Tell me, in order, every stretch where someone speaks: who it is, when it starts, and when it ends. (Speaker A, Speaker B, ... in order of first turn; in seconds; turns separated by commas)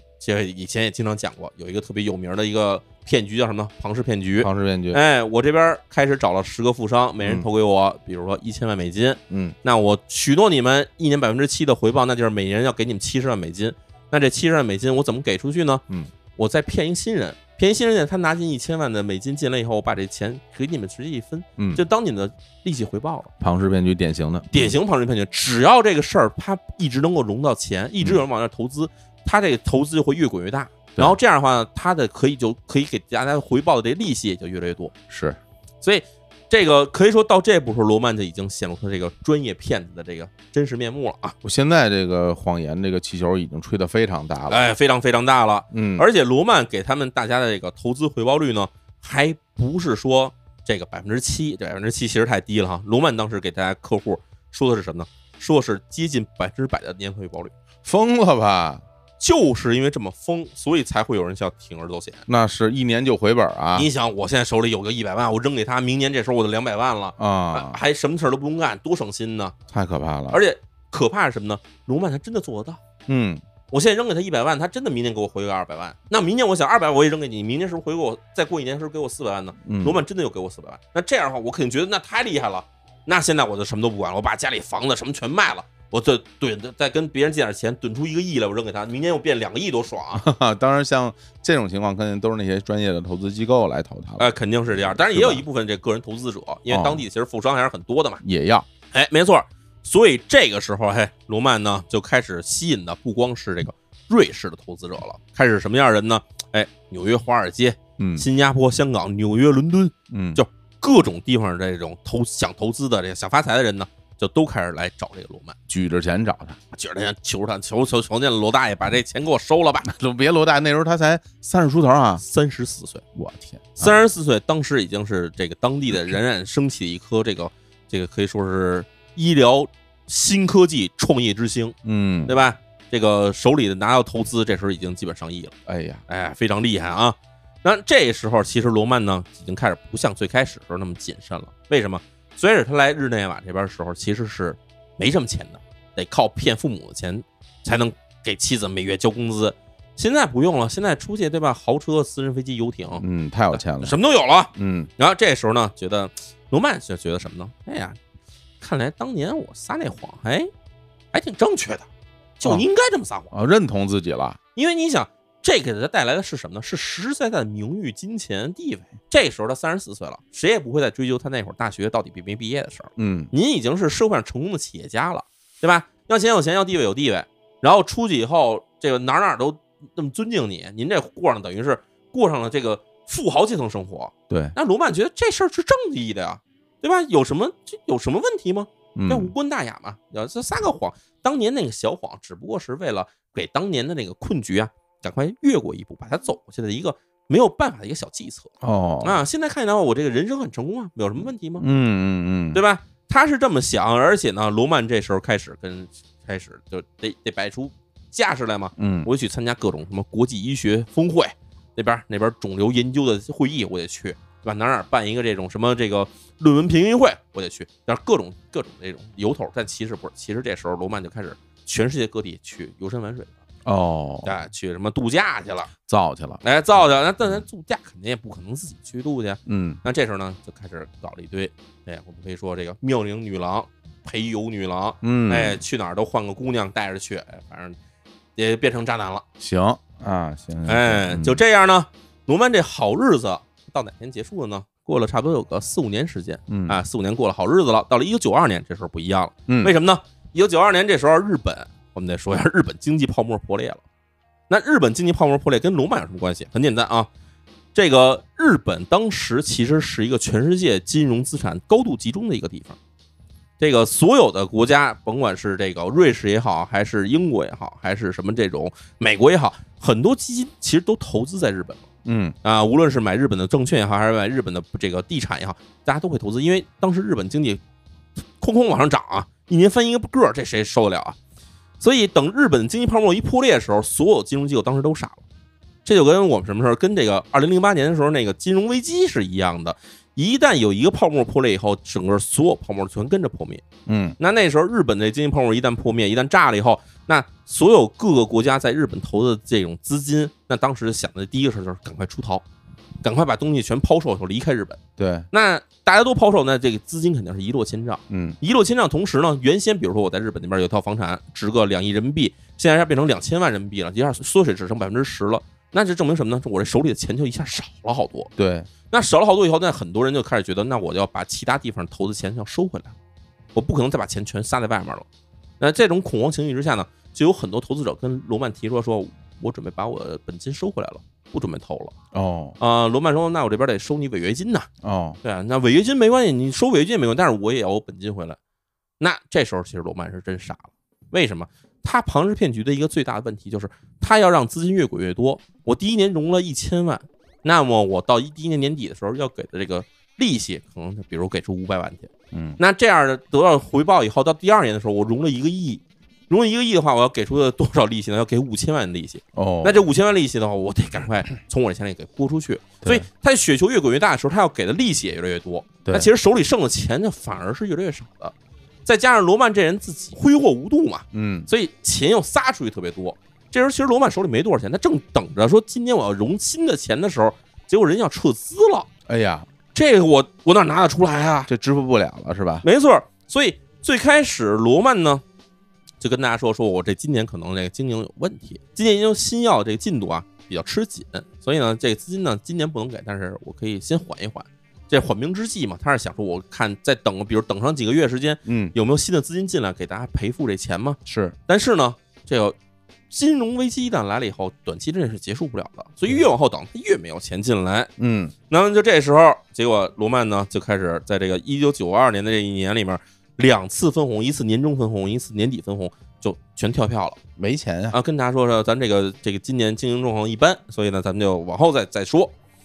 Speaker A: 0.2-15.8, Speaker B: 4.4-5.0, Speaker B: 7.2-7.5, Speaker B: 9.3-9.6, Speaker A: 16.4-23.3, Speaker B: 21.6-21.8, Speaker B: 23.4-24.7, Speaker A: 24.5-34.9, Speaker B: 35.1-35.4, Speaker A: 35.8-41.4, Speaker B: 41.4-44.7, Speaker A: 44.5-57.5, Speaker B: 45.7-46.1, Speaker B: 57.9-58.8, Speaker A: 59.2-62.2, Speaker B: 62.3-63.9, Speaker A: 63.8-69.5, Speaker B: 67.2-67.8, Speaker B: 69.7-70.4, Speaker A: 70.3-72.8, Speaker B: 73.1-73.4, Speaker A: 73.7-90.2, Speaker B: 79.7-80.0, Speaker B: 90.2-95.4, Speaker A: 94.2-98.2, Speaker B: 96.7-97.0, Speaker B: 98.2-98.7, Speaker A: 98.9-115.6, Speaker B: 108.0-108.3, Speaker B: 110.1-110.4, Speaker B: 115.7-116.6, Speaker A: 116.7-119.9, Speaker B: 119.8-122.2, Speaker A: 122.2-123.0, Speaker B: 123.2-124.0, Speaker A: 123.8-131.8, Speaker B: 131.8-132.4, Speaker A: 132.3-135.5, Speaker B: 135.7-136.0, Speaker A: 136.1-158.0, Speaker B: 153.0-154.0, Speaker B: 154.5-154.9, Speaker A: 158.6-160.5, Speaker A: 161.1-161.9, Speaker A: 162.4-163.3, Speaker B: 163.3-164.4, Speaker A: 164.6-198.5, Speaker B: 173.0-173.3, Speaker B: 184.3-184.6, Speaker B: 188.9-189.3, Speaker B: 198.6-199.2, Speaker A: 199.0-201.7, Speaker B: 201.6-202.6, Speaker A: 202.5-223.4, Speaker B: 208.8-209.1, Speaker B: 223.7-224.4, Speaker A: 224.2-225.7, Speaker B: 225.9-226.4, Speaker A: 226.4-237.8, Speaker B: 229.5-229.8, Speaker B: 235.0-235.6, Speaker A: 238.4-239.2, Speaker B: 239.4-241.4, Speaker A: 240.7-253.8, Speaker B: 246.5-246.8, Speaker B: 249.5-249.7, Speaker A: 254.5-257.1, Speaker A: 257.8-262.8, Speaker A: 263.6-271.9, Speaker B: 272.1-272.4, Speaker A: 272.4-277.6, Speaker A: 278.4-281.2, Speaker A: 281.8-285.2, Speaker A: 285.9-293.6, Speaker B: 293.9-294.2, Speaker A: 294.2-302.4, Speaker A: 303.0-304.8, Speaker B: 305.0-305.3, Speaker A: 305.3-318.3, Speaker B: 308.1-308.4, Speaker B: 318.4-318.7, Speaker A: 318.9-322.9, Speaker A: 323.6-325.1, Speaker A: 325.6-331.9, Speaker B: 332.1-332.6, Speaker A: 332.6-334.7, Speaker B: 334.8-335.2, Speaker A: 335.2-338.4, Speaker A: 339.0-368.3, Speaker B: 352.3-352.6, Speaker B: 359.3-359.9, Speaker B: 365.9-366.1, Speaker A: 368.9-378.9, Speaker B: 371.1-371.5, Speaker B: 379.1-379.5, Speaker A: 379.7-381.5, Speaker B: 381.5-382.7, Speaker A: 382.6-385.2, Speaker A: 386.0-402.6, Speaker B: 398.4-398.8, Speaker B: 401.1-401.4, Speaker A: 403.1-407.9, Speaker B: 408.0-408.3, Speaker A: 408.5-417.2, Speaker B: 417.4-418.0, Speaker A: 417.9-422.3